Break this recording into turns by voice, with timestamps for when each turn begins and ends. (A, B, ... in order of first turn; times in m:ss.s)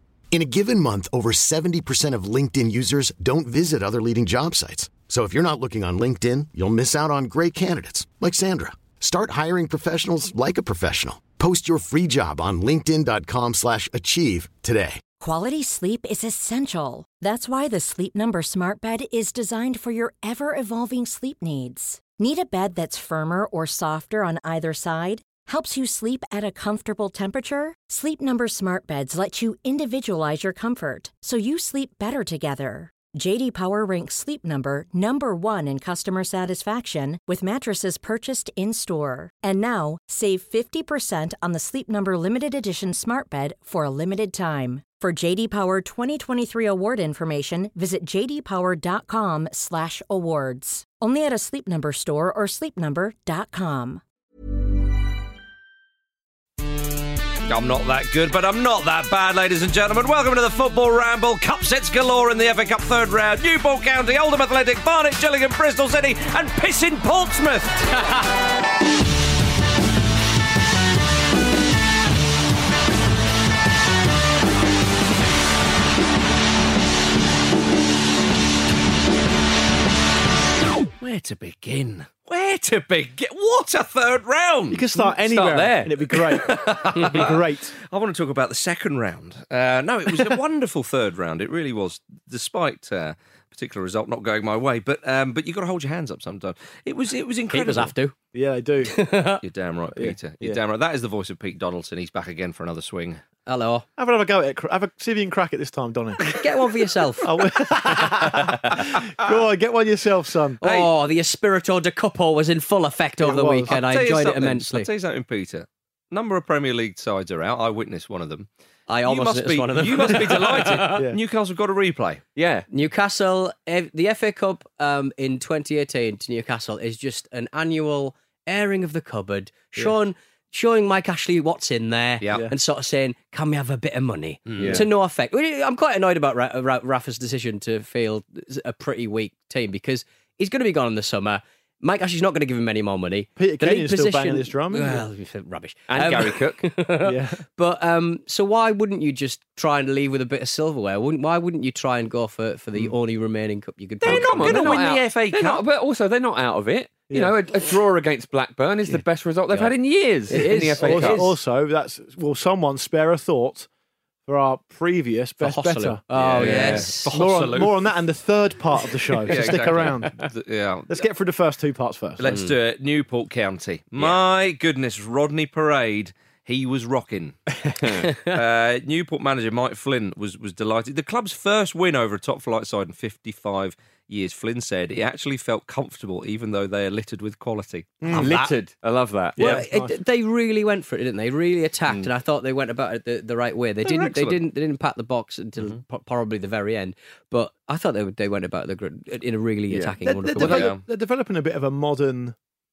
0:00.3-0:15.0 A
0:15.2-0:54.0 B
0:57.4-1:08.2 C
1:21.0-1:37.9 C
1:24.7-1:27.7 D
1:37.5-1:38.1 E
1:38.3-1:39.0 D
1:38.9-1:39.4 E
1:39.4-1:43.2 C
1:40.0-1:40.6 D
1:43.4-1:43.8 E
1:44.0-1:46.4 D
1:46.2-1:47.3 E
1:47.2-1:50.6 D
1:50.6-1:54.9 E
1:50.6-1:50.9 C
1:53.2-1:53.8 D
1:53.7-1:58.5 C
1:58.9-2:01.0 E
1:59.0-2:02.2 C
2:02.4-2:02.6 F
2:02.7-2:34.9 E
2:12.2-2:12.5 C
2:14.5-2:14.8 C
2:14.6-2:14.9 F
2:23.4-2:25.0 D
2:25.9-2:26.7 F
2:27.0-2:27.4 D
2:34.0-2:35.6 C
2:34.0-2:41.3 F
2:40.3-2:41.3 E
2:40.8-2:43.7 D
2:44.3-2:46.0 D
2:45.4-2:47.1 E
2:46.1-2:46.9 F
2:46.4-2:47.9 C
2:47.1-2:50.1 D
2:49.3-2:51.1 C
2:50.9-2:52.3 D
2:52.2-2:57.5 C
2:52.2-2:52.5 E
2:57.7-2:58.1 F
2:58.2-3:08.5 C
3:08.0-3:08.3 D
3:08.1-3:09.4 F
3:09.4-3:20.7 E
3:09.4-3:09.6 C
3:09.4-3:09.9 D
3:13.8-3:14.4 C
3:19.7-3:20.1 F
3:20.0-3:22.4 D
3:20.4-3:20.8 C